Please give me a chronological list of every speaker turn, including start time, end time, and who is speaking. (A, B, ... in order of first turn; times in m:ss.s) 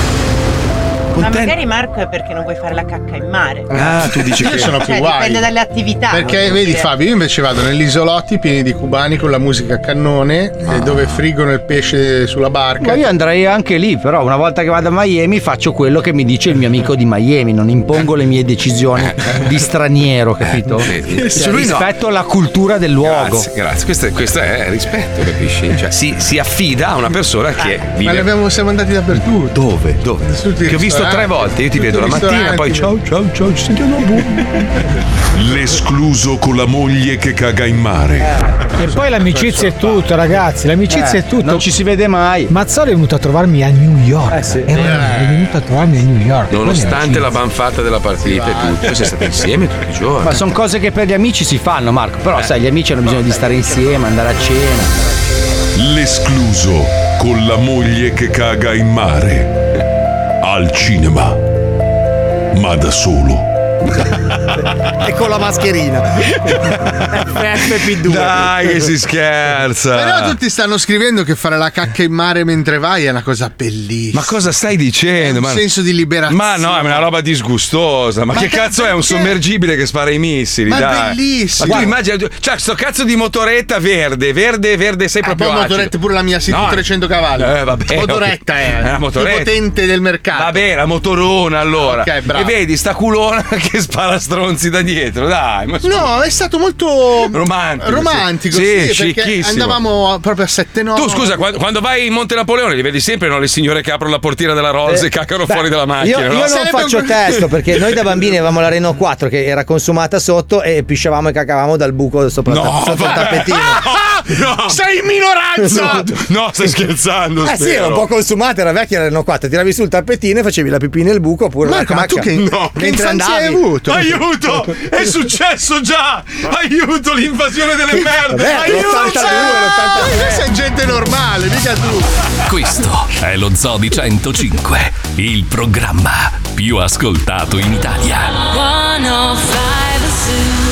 0:01.1-0:01.6 A
0:01.2-0:03.7 B
0:03.7-0:04.8 A
0:03.7-0:05.5 C
0:04.8-0:06.9 B
0:06.1-0:13.1 C
0:10.7-0:11.2 A
0:12.8-0:23.5 D
0:19.0-0:19.4 A
0:20.4-0:21.9 A
0:23.0-0:28.3 A
0:28.0-0:29.6 C
0:29.5-0:34.4 A
0:30.2-0:32.9 C
0:35.4-0:38.3 E
0:38.8-0:41.7 F
0:39.2-0:40.1 C
0:40.9-0:42.5 D
0:42.5-0:47.4 F
0:44.4-0:44.9 D
0:44.8-0:45.3 C
0:46.5-0:50.5 A
0:48.2-0:49.0 C
0:50.2-0:55.0 D
0:55.8-0:59.6 E
1:00.4-1:01.4 E
1:02.5-1:03.5 E
1:05.0-1:06.4 G
1:07.3-1:08.4 G
1:07.6-1:10.4 A
1:09.9-1:14.4 C
1:14.1-1:15.7 A
1:15.2-1:17.1 C
1:16.3-1:25.9 A
1:18.3-1:19.4 C
1:20.7-1:22.0 C
1:21.6-1:21.9 G
1:25.2-1:30.6 C
1:26.5-1:29.5 A
1:30.3-1:36.1 A
1:31.8-1:32.5 C
1:35.8-1:41.4 C
1:37.3-1:39.8 A
1:40.9-1:47.4 A
1:44.9-1:53.8 G
1:46.3-1:47.4 C
1:52.5-1:54.8 A
1:53.8-1:56.1 C
1:55.6-1:58.0 A
1:57.4-2:03.7 G
2:01.6-2:04.2 C
2:02.4-2:02.8 A
2:03.9-2:09.4 A
2:08.2-2:10.4 G
2:08.5-2:12.1 C
2:12.5-2:18.6 H